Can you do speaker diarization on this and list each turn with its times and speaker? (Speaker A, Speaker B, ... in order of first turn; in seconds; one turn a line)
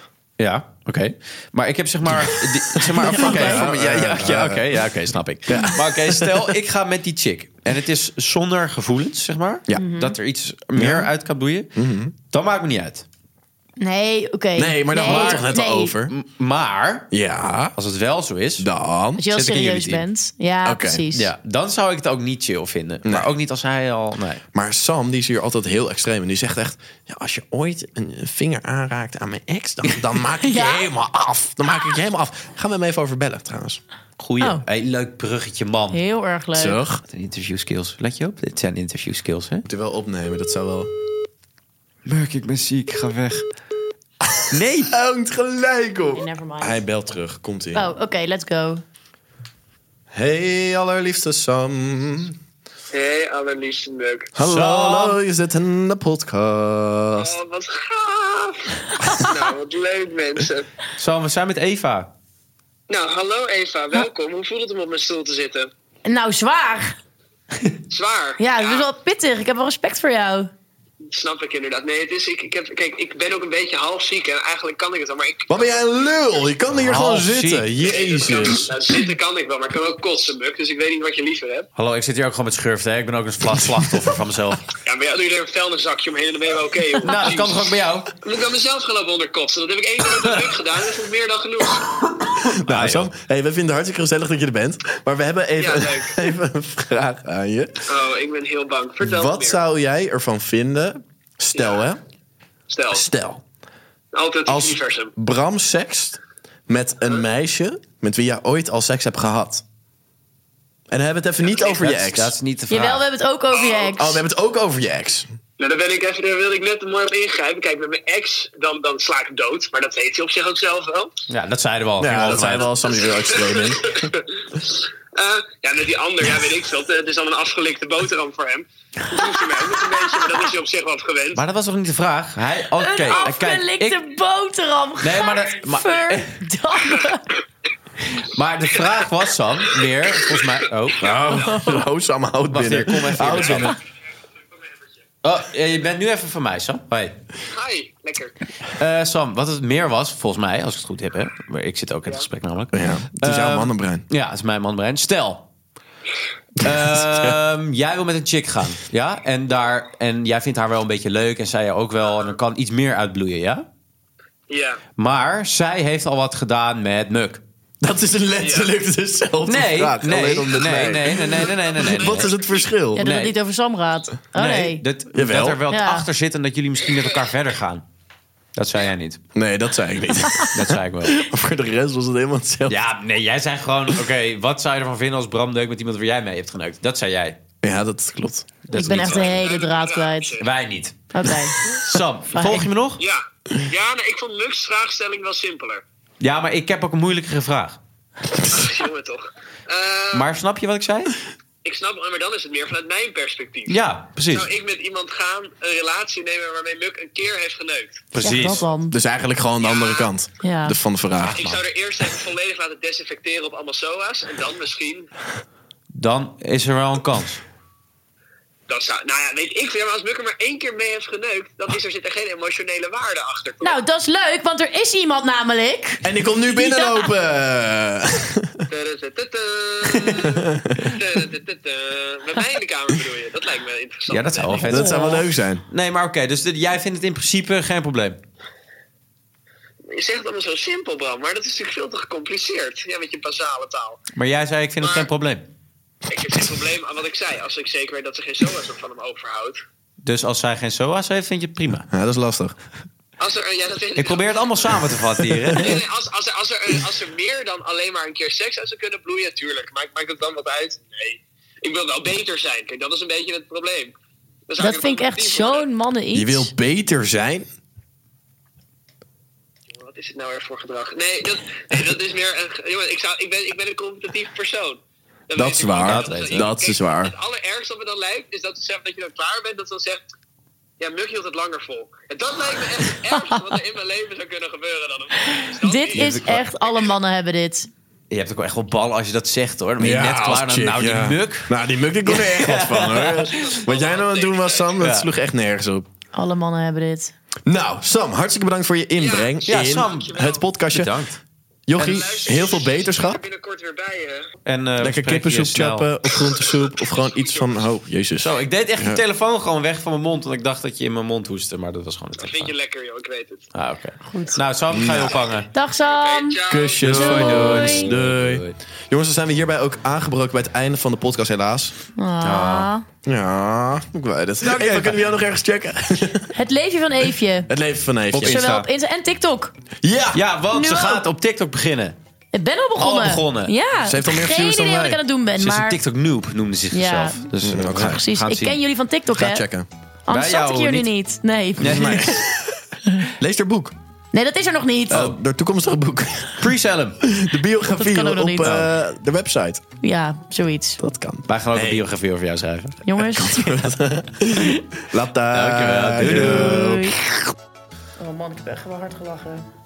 Speaker A: 0.4-13.1
Speaker B: 2.1-4.8
Speaker C: 3.0-3.7
Speaker B: 5.5-6.5
Speaker C: 9.8-10.2
Speaker B: 10.8-11.1
Speaker B: 11.8-12.1
Speaker C: 13.8-16.0
Speaker B: 14.6-16.1
Speaker A: 15.0-15.5
Speaker A: 16.1-17.1
Speaker B: 17.1-17.8
Speaker A: 17.8-18.7
Speaker B: 18.6-19.2
Speaker C: 19.2-21.3
Speaker A: 19.3-20.1
Speaker B: 20.6-21.0
Speaker A: 21.1-24.4
Speaker B: 23.1-23.3
Speaker B: 24.5-33.8
Speaker C: 30.4-30.9
Speaker A: 34.2-36.0
Speaker C: 35.9-36.8
Speaker B: 36.5-37.0
Speaker A: 37.0-39.6
Speaker B: 39.6-40.9
Speaker A: 42.0-43.5
Speaker B: 44.3-47.9
Speaker A: 44.5-44.9
Speaker C: 46.1-46.8
Speaker C: 47.8-48.8
Speaker B: 50.1-52.4
Speaker D: 52.9-54.3
Speaker B: 54.4-57.4
Speaker A: 54.4-55.2
Speaker D: 57.2-60.7
Speaker A: 61.0-62.1
Speaker D: 62.9-65.7
Speaker C: 66.0-67.0
Speaker D: 67.9-68.9
Speaker C: 68.4-70.5
Speaker D: 71.1-75.7
Speaker B: 75.5-78.7
Speaker A: 76.7-77.7
Speaker D: 77.8-81.7
Speaker A: 81.8-84.7
Speaker D: 84.8-92.0
Speaker A: 87.0-88.1
Speaker A: 92.4-93.1
Speaker B: 92.5-97.9
Speaker D: 95.6-96.2
Speaker D: 97.9-99.6
Speaker B: 99.0-102.0
Speaker D: 101.5-101.9
Speaker D: 102.7-103.0
Speaker B: 102.9-103.4
Speaker D: 104.1-105.1
Speaker B: 104.5-109.6
Speaker B: 110.9-112.3
Speaker D: 111.4-111.7
Speaker A: 111.7-113.0
Speaker C: 112.7-114.2
Speaker D: 113.5-114.0
Speaker B: 114.0-115.3
Speaker D: 115.6-121.1
Speaker A: 121.3-122.9
Speaker B: 122.0-124.0
Speaker D: 123.0-131.4
Speaker C: 129.2-130.0
Speaker A: 131.3-134.0
Speaker C: 132.8-137.3
Speaker A: 135.0-136.4
Speaker A: 138.1-141.0
Speaker B: 141.0-143.8
Speaker C: 141.3-141.8
Speaker A: 142.5-143.7
Speaker A: 145.2-147.2
Speaker D: 147.5-148.3
Speaker A: 148.8-155.4
Speaker B: 152.7-154.1
Speaker B: 156.6-157.4
Speaker A: 156.6-163.7
Speaker D: 164.5-164.8
Speaker A: 165.0-167.4
Speaker B: 167.8-173.0
Speaker D: 168.4-168.7
Speaker A: 169.4-172.3
Speaker D: 171.5-172.6
Speaker A: 172.9-173.3
Speaker C: 173.0-174.8
Speaker A: 174.3-177.8
Speaker B: 175.1-175.6
Speaker C: 175.7-176.1
Speaker A: 178.6-179.2
Speaker B: 179.3-180.6
Speaker A: 180.5-181.2
Speaker B: 181.1-182.8
Speaker A: 182.7-187.4
Speaker B: 187.6-188.5
Speaker A: 188.7-189.5
Speaker C: 188.7-190.4
Speaker D: 189.0-190.5
Speaker A: 190.4-191.1
Speaker C: 191.1-191.8
Speaker A: 191.7-193.0
Speaker C: 192.3-192.7
Speaker D: 193.0-195.8
Speaker A: 196.2-197.8
Speaker D: 198.5-200.3
Speaker A: 200.1-201.2
Speaker D: 201.6-203.8
Speaker A: 203.7-204.5
Speaker D: 204.3-208.5
Speaker A: 208.2-208.6
Speaker C: 208.2-208.9
Speaker B: 208.9-211.6
Speaker D: 209.6-210.1
Speaker C: 210.4-210.8
Speaker D: 211.3-215.1
Speaker A: 215.9-217.4
Speaker D: 218.7-223.8
Speaker C: 223.6-227.1
Speaker B: 226.0-228.7
Speaker D: 228.7-234.7
Speaker B: 230.2-231.0
Speaker A: 234.1-238.2
Speaker C: 234.6-235.2
Speaker B: 234.7-235.6
Speaker D: 239.9-244.0
Speaker A: 244.2-245.5
Speaker D: 244.8-245.1
Speaker D: 246.1-249.6
Speaker A: 250.0-251.9
Speaker B: 251.9-252.6
Speaker D: 253.2-254.3
Speaker A: 253.9-255.8
Speaker D: 255.5-263.9
Speaker D: 264.5-265.7
Speaker C: 264.6-266.5
Speaker B: 266.1-267.5
Speaker D: 269.7-274.8
Speaker D: 275.3-280.1
Speaker B: 275.4-277.1
Speaker A: 275.8-276.5
Speaker D: 280.8-286.9
Speaker C: 285.3-287.7
Speaker A: 285.9-286.4
Speaker A: 288.1-293.6
Speaker B: 289.8-295.9
Speaker D: 293.4-294.8
Speaker A: 294.8-295.1
Speaker C: 296.2-297.1
Speaker B: 297.5-300.9
Speaker D: 299.0-300.4
Speaker A: 299.5-300.2
Speaker A: 300.7-301.2
Speaker B: 301.7-303.2
Speaker D: 301.8-304.3
Speaker A: 304.5-305.9
Speaker B: 304.8-309.0
Speaker D: 306.3-307.6
Speaker A: 308.2-312.5
Speaker D: 312.2-313.5
Speaker A: 313.6-315.5
Speaker C: 314.1-314.4
Speaker B: 314.7-315.2
Speaker C: 315.5-317.9
Speaker D: 315.9-317.1
Speaker B: 316.5-321.7
Speaker A: 316.8-318.6
Speaker C: 322.0-322.9
Speaker A: 322.2-322.7
Speaker B: 323.1-326.3
Speaker A: 324.4-325.0
Speaker C: 326.3-327.5
Speaker B: 327.5-328.4
Speaker A: 328.1-328.7
Speaker C: 328.2-329.5
Speaker B: 329.8-330.2
Speaker A: 330.1-332.0
Speaker C: 330.5-331.1
Speaker C: 332.3-335.8
Speaker A: 332.8-333.6
Speaker B: 333.8-335.0
Speaker A: 335.4-338.6
Speaker C: 336.7-339.4
Speaker B: 337.4-338.0
Speaker B: 339.1-339.7
Speaker C: 340.1-342.2
Speaker A: 340.1-340.9
Speaker A: 341.6-342.2
Speaker B: 341.6-342.6
Speaker B: 343.2-343.7
Speaker C: 344.1-345.1
Speaker B: 344.9-346.5
Speaker A: 344.9-345.2
Speaker A: 346.4-347.0
Speaker B: 347.0-349.6
Speaker C: 347.7-348.6
Speaker A: 348.4-348.7
Speaker C: 349.8-350.8
Speaker B: 350.8-351.9
Speaker A: 351.3-352.8
Speaker C: 352.9-353.7
Speaker B: 353.0-356.9
Speaker A: 355.3-356.9
Speaker C: 356.0-357.2
Speaker C: 358.0-359.5